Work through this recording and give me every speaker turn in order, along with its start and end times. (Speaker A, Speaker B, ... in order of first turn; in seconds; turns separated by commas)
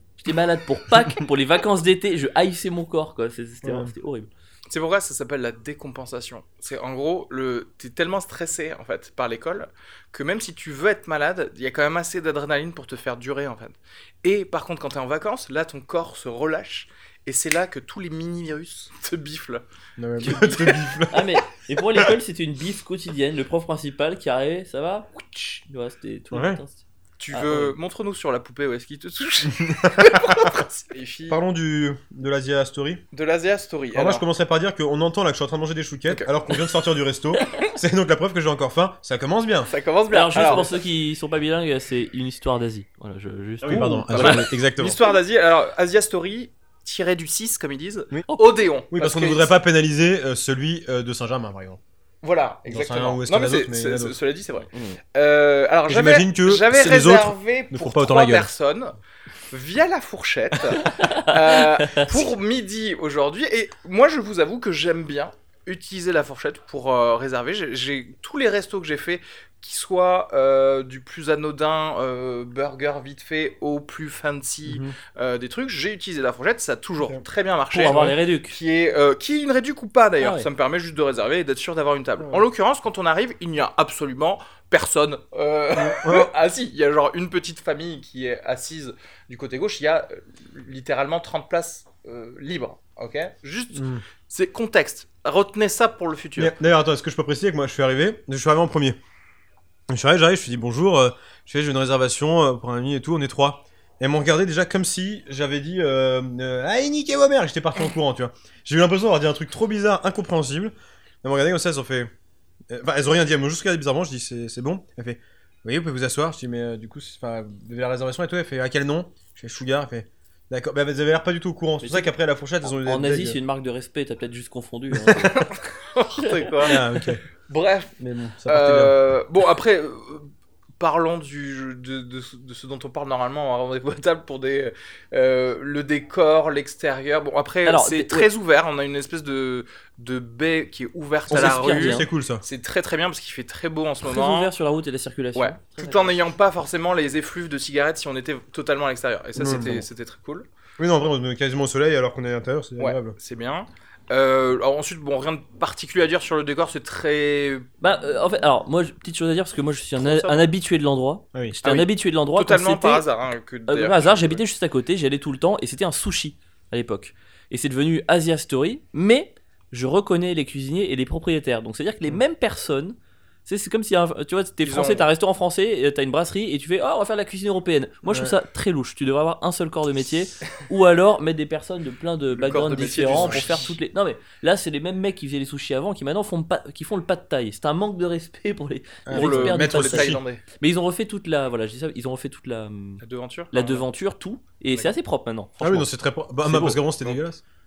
Speaker A: 0.2-4.3, Speaker B: 3.6-3.9, Speaker C: 4.7-19.6, Speaker B: 20.0-21.4, Speaker C: 20.2-20.8, Speaker A: 20.2-27.8, Speaker C: 25.3-25.6, Speaker B: 26.3-26.6, Speaker C: 27.2-31.4, Speaker B: 29.5-30.6, Speaker B: 31.3-33.0, Speaker C: 33.1-34.2, Speaker B: 33.9-39.7, Speaker C: 36.1-36.6, Speaker C: 39.7-40.8, Speaker A: 40.1-44.5, Speaker B: 43.6-45.0, Speaker C: 44.1-49.6, Speaker B: 48.9-51.8, Speaker C: 52.2-59.0, Speaker B: 52.7-54.2, Speaker A: 54.7-55.0, Speaker B: 55.9-58.5, Speaker C: 59.5-96.5, Speaker A: 60.8-62.2, Speaker B: 74.7-75.0, Speaker A: 77.7-78.6, Speaker A: 80.2-80.5, Speaker B: 85.8-86.3, Speaker B: 93.7-94.0, Speaker B: 96.4-99.0, Speaker B: 99.9-112.1, Speaker B: 112.7-123.4, Speaker A: 121.8-122.1, Speaker A: 122.6-125.5, Speaker B: 125.0-125.3, Speaker C: 125.3-126.8, Speaker A: 126.2-126.7, Speaker B: 126.6-127.2, Speaker C: 127.5-128.0, Speaker B: 128.0-129.0, Speaker C: 128.5-144.5, Speaker A: 137.7-138.3, Speaker A: 141.3-142.1, Speaker B: 141.3-142.4, Speaker A: 144.0-146.2, Speaker C: 145.3-150.5, Speaker B: 149.4-149.9, Speaker B: 150.8-153.2, Speaker C: 152.8-157.7, Speaker A: 157.8-163.1, Speaker C: 160.0-160.5, Speaker C: 161.6-164.4, Speaker A: 163.7-195.9, Speaker C: 174.6-175.1, Speaker B: 178.1-178.4, Speaker C: 182.3-183.7, Speaker B: 183.0-183.5, Speaker B: 189.1-190.2, Speaker C: 189.1-190.4, Speaker C: 193.0-193.9, Speaker B: 195.6-197.4, Speaker A: 196.4-196.8